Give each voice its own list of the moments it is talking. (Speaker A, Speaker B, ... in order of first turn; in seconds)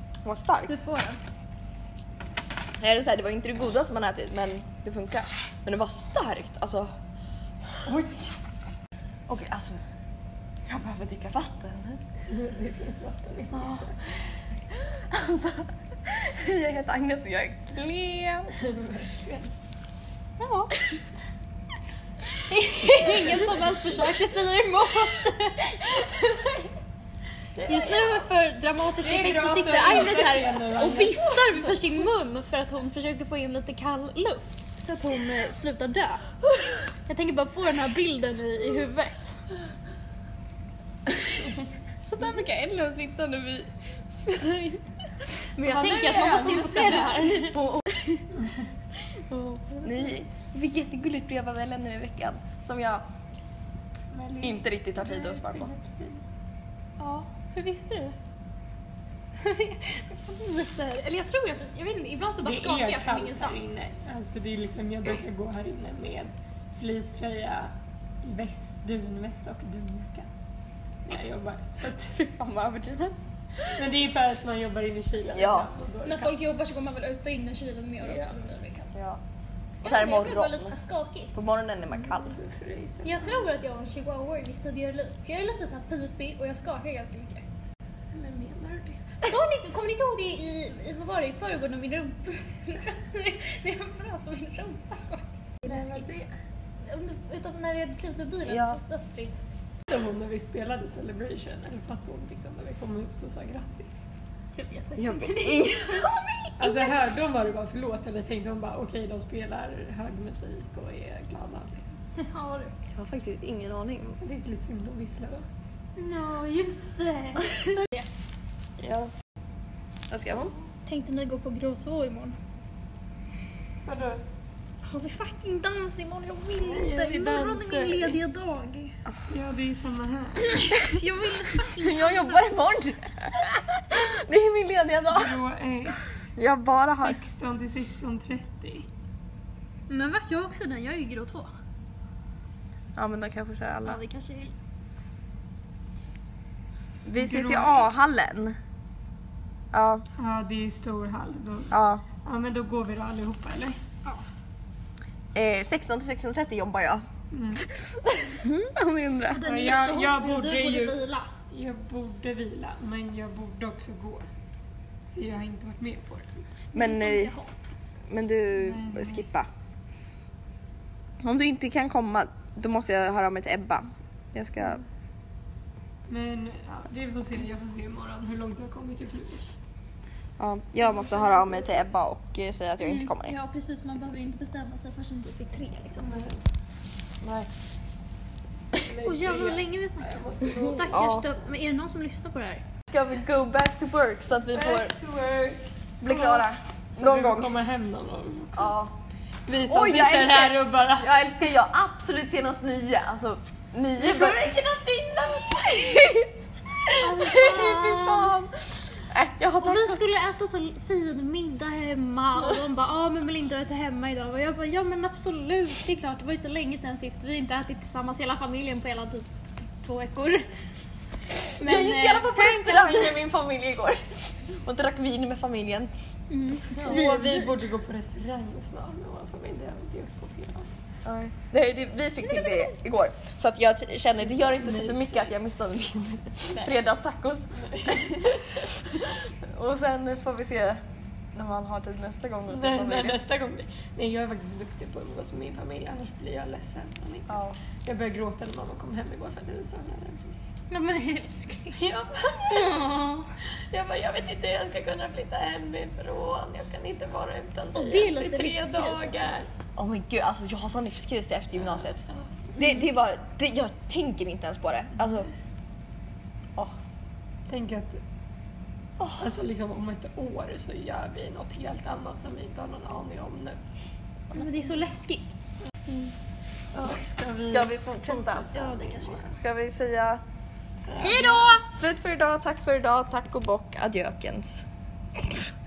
Speaker A: 0.2-0.7, 2.8-6.9, 9.3-9.8, 10.7-12.0, 13.5-13.9, 15.1-18.6, 42.0-46.1, 46.9-48.2, 49.8-53.0, 54.4-55.7, 72.1-73.7, 75.3-75.7, 79.9-80.8, 81.3-82.4, 98.5-98.8, 105.0-106.5, 112.9-114.2, 118.8-119.1, 120.1-120.5, 130.7-131.0, 131.6-135.4, 136.0-137.2, 143.0-144.0, 147.1-148.6, 149.7-150.1, 151.7-152.1, 155.3-157.1, 157.6-159.4, 166.8-167.3, 168.1-169.5, 171.2-174.8, 180.4-183.4, 187.2-187.5, 190.9-191.2, 192.9-194.9, 196.0-197.5, 198.6-198.9, 199.6-204.6, 205.6-206.3, 206.9-208.3, 209.1-210.0, 221.6-225.9, 231.1-240.8, 241.3-243.2, 247.3-247.6, 259.8-262.1, 262.6-265.3, 277.4-280.2, 281.6-284.6, 285.2-285.4
Speaker B: 0.7-1.2, 20.4-20.7, 22.3-26.7, 27.6-36.3, 37.1-39.4, 45.6-47.6, 49.3-50.1, 57.0-58.1, 59.4-63.7, 76.0-78.9, 79.8-81.3, 83.0-87.4, 89.3-96.2, 96.9-99.4, 104.6-107.0, 112.2-112.8, 116.0-118.1, 120.8-122.4, 124.8-129.0, 130.8-132.6, 139.9-141.5, 143.8-144.5, 159.3-161.3, 166.7-167.5, 182.8-186.2, 189.0-192.6, 206.9-208.5, 209.6-220.5, 221.6-223.2, 226.3-227.6, 232.2-232.5, 250.7-251.8, 252.5-253.3, 257.8-259.3, 274.3-275.4, 278.4-279.3, 281.0-281.6
Speaker C: 7.9-8.3, 12.3-14.0, 18.6-19.5, 23.0-23.6, 27.6-28.3, 29.0-31.7, 46.0-47.3, 54.1-56.2, 62.4-67.7, 68.2-70.3, 71.0-72.1, 73.8-76.3, 78.0-78.4, 82.1-83.5, 88.1-89.2, 95.6-96.3, 99.9-104.0, 106.6-112.0, 114.2-115.5, 123.8-124.2, 126.6-128.2, 129.3-130.8, 135.1-136.0, 137.1-138.9, 147.2-147.9, 150.1-153.8, 157.3-157.7, 159.4-164.2, 165.1-166.5, 168.6-169.2, 176.1-179.6, 186.0-186.4, 188.8-191.0, 194.5-196.4, 197.0-198.7, 199.5-201.1, 204.0-206.1, 226.8-230.7, 234.4-235.3, 237.6-238.1, 242.5-250.4, 251.7-253.1, 253.7-259.5, 267.5-268.0, 269.1-273.6, 276.7-279.3, 280.9-281.6